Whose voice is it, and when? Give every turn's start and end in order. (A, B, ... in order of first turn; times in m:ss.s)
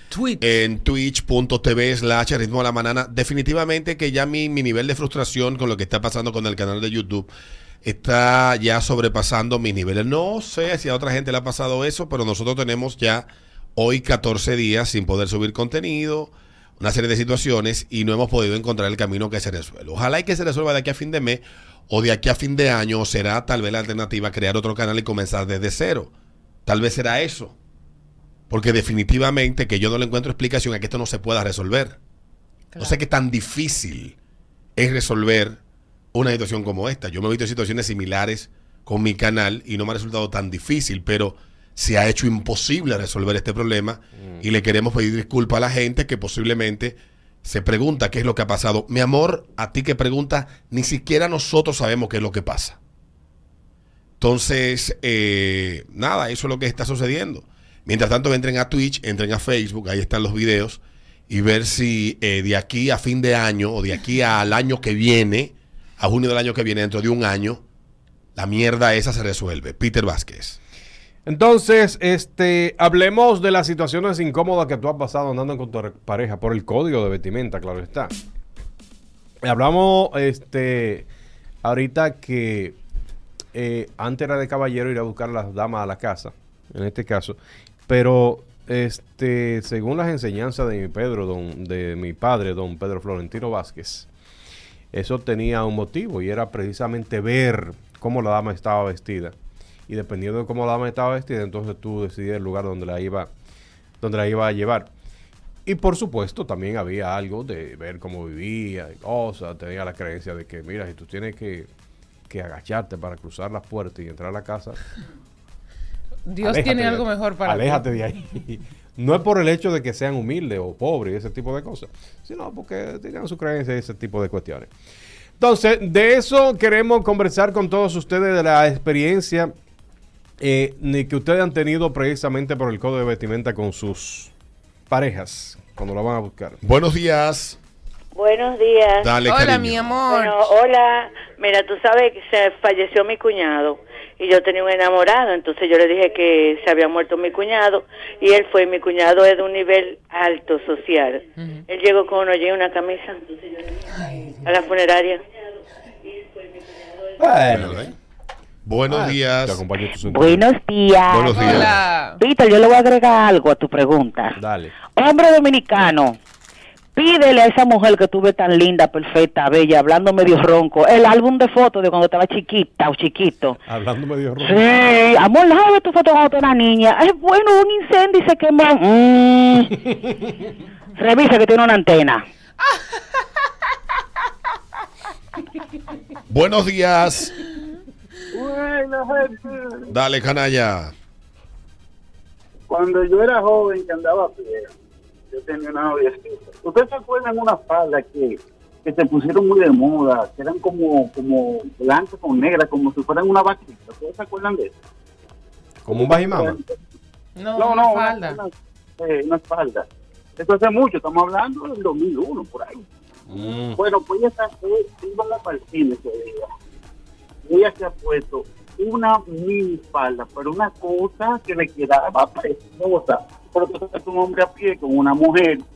0:00.4-0:07.3 A
0:07.8-0:26.1 A
0:26.7-0:27.6 A
0:28.5-0:32.0 A
0:32.7-0:33.0 B
0:32.8-0:34.2 A
0:34.8-0:35.6 A
0:36.1-0:52.8 A
0:44.2-0:44.4 C
0:54.2-1:07.6 A
1:08.4-1:10.6 A
1:11.3-1:18.1 C
1:19.4-1:21.1 C
1:21.6-1:22.8 C
1:23.5-1:34.1 C
1:34.9-1:39.4 C
1:39.9-1:43.3 C
1:44.0-1:44.9 C
1:45.7-1:51.7 C
1:52.3-1:54.8 C
1:56.3-1:57.8 B
1:56.4-2:04.7 C
2:05.4-2:09.5 C
2:10.4-2:14.3 C
2:14.9-2:16.6 C
2:16.6-2:17.6 A
2:18.2-2:19.2 D
2:19.0-2:20.0 A
2:19.3-2:20.5 B
2:20.1-2:33.8 D
2:34.0-2:34.4 B
2:34.4-2:35.2 D
2:36.1-2:36.9 D
2:37.2-2:37.9 C
2:37.5-2:37.9 A
2:38.6-2:39.6 A
2:38.9-2:40.5 C
2:40.0-2:44.3 E
2:41.1-2:41.8 A
2:41.3-2:42.2 B
2:44.4-2:44.8 C
2:45.0-2:46.2 E
2:47.0-2:53.6 E
2:53.6-2:54.7 C
2:54.4-2:59.8 E
3:01.0-3:02.2 E
3:06.3-3:07.4 A
3:08.3-3:09.9 F
3:09.9-3:10.9 A
3:12.7-3:14.7 F
3:15.3-3:24.7 F
3:25.8-3:26.6 C
3:25.9-3:26.7 F
3:27.4-3:28.4 B
3:27.6-3:29.9 F
3:30.4-3:32.8 F
3:33.3-3:33.8 C
3:33.7-3:36.5 F
3:37.5-3:45.6 F